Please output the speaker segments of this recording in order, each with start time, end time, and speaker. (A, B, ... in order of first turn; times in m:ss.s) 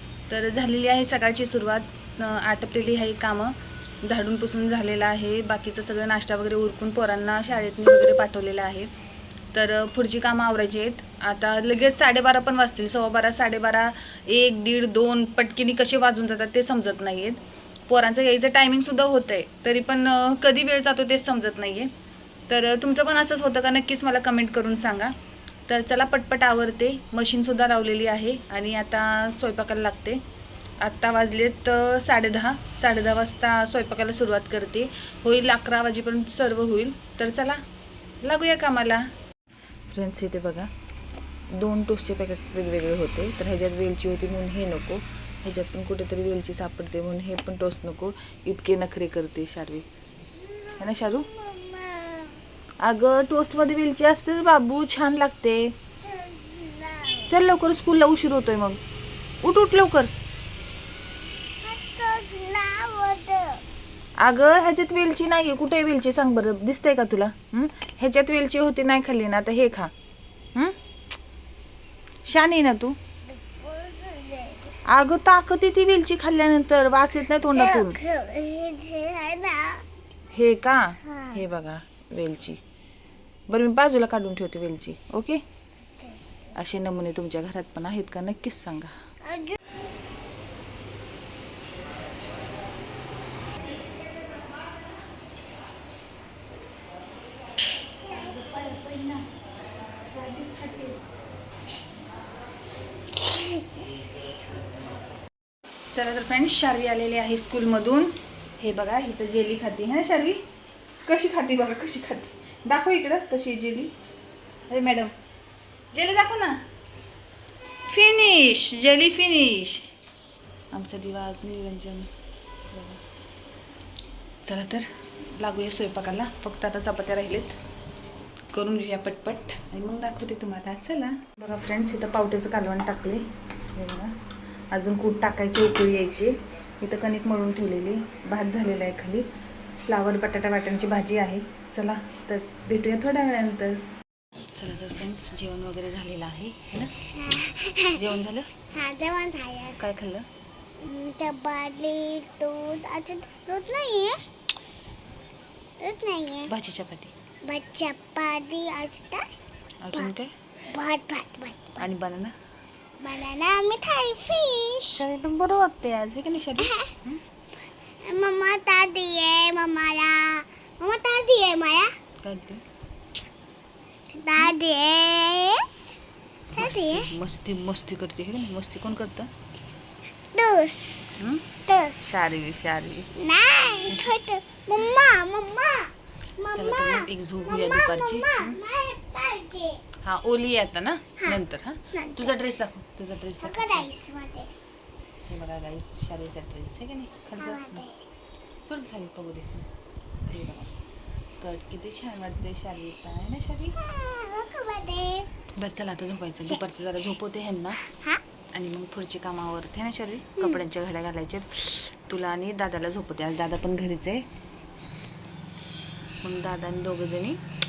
0:00.3-0:08.9 A
0:09.5-0:21.9 A
0:22.5-0:25.2 A
0:25.7-0:30.2 A
0:30.8-0:37.6 A
0:38.2-0:39.1 A
0:39.9-0:40.7 A
0:41.5-0:49.9 A
0:50.4-0:52.4 B
0:50.8-0:51.3 A
0:52.8-0:55.7 A
0:56.0-0:57.3 B
0:57.3-0:58.8 A
0:59.4-1:00.1 A
1:01.6-1:03.6 B
1:04.2-1:09.9 A
1:12.2-1:13.0 A
1:13.4-1:14.8 B
1:14.9-1:18.0 A
1:17.5-1:19.8 B
1:20.3-1:22.6 A
1:21.0-1:21.4 B
1:23.5-1:25.4 A
1:26.6-1:28.9 A
1:29.3-1:29.6 B
1:38.1-1:39.1 B
1:43.4-1:43.8 B
1:45.9-1:50.4 A
1:51.0-1:54.0 A
1:54.7-1:55.1 A
1:55.9-1:56.6 A
1:57.9-1:59.9 A
2:00.7-2:02.1 A
2:02.7-2:03.0 A
2:04.4-2:07.6 A
2:08.5-2:14.2 A
2:14.7-2:19.3 A
2:19.9-2:23.8 A
2:24.5-2:27.0 A
2:27.1-2:28.1 B
2:27.9-2:28.5 A
2:28.7-2:29.8 B
2:29.8-2:30.3 A
2:30.8-2:34.2 B
2:35.8-2:36.5 B
2:36.5-2:37.1 A
2:37.4-2:39.2 B
2:39.8-2:40.3 A
2:40.7-2:41.8 B
2:41.8-2:42.4 A
2:43.0-2:45.0 B
2:45.0-2:47.2 A
2:46.6-2:46.9 B
2:48.0-2:51.9 B
2:52.2-2:52.6 A
2:54.1-2:55.7 B
2:56.5-2:59.3 A
2:56.6-2:57.1 B
3:00.3-3:01.2 B
3:01.2-3:03.1 A
3:01.7-3:02.0 B
3:03.2-3:09.8 B
3:03.9-3:04.2 A
3:06.5-3:08.6 A
3:10.0-3:13.9 A
3:11.9-3:12.6 B
3:13.4-3:14.8 B
3:15.3-3:17.9 A
3:17.4-3:18.1 B
3:18.6-3:19.7 A
3:20.3-3:20.7 A
3:21.3-3:23.8 A
3:23.8-3:25.5 B
3:25.6-3:27.8 A
3:27.9-3:28.2 B
3:28.5-3:34.3 A
3:36.2-3:37.4 A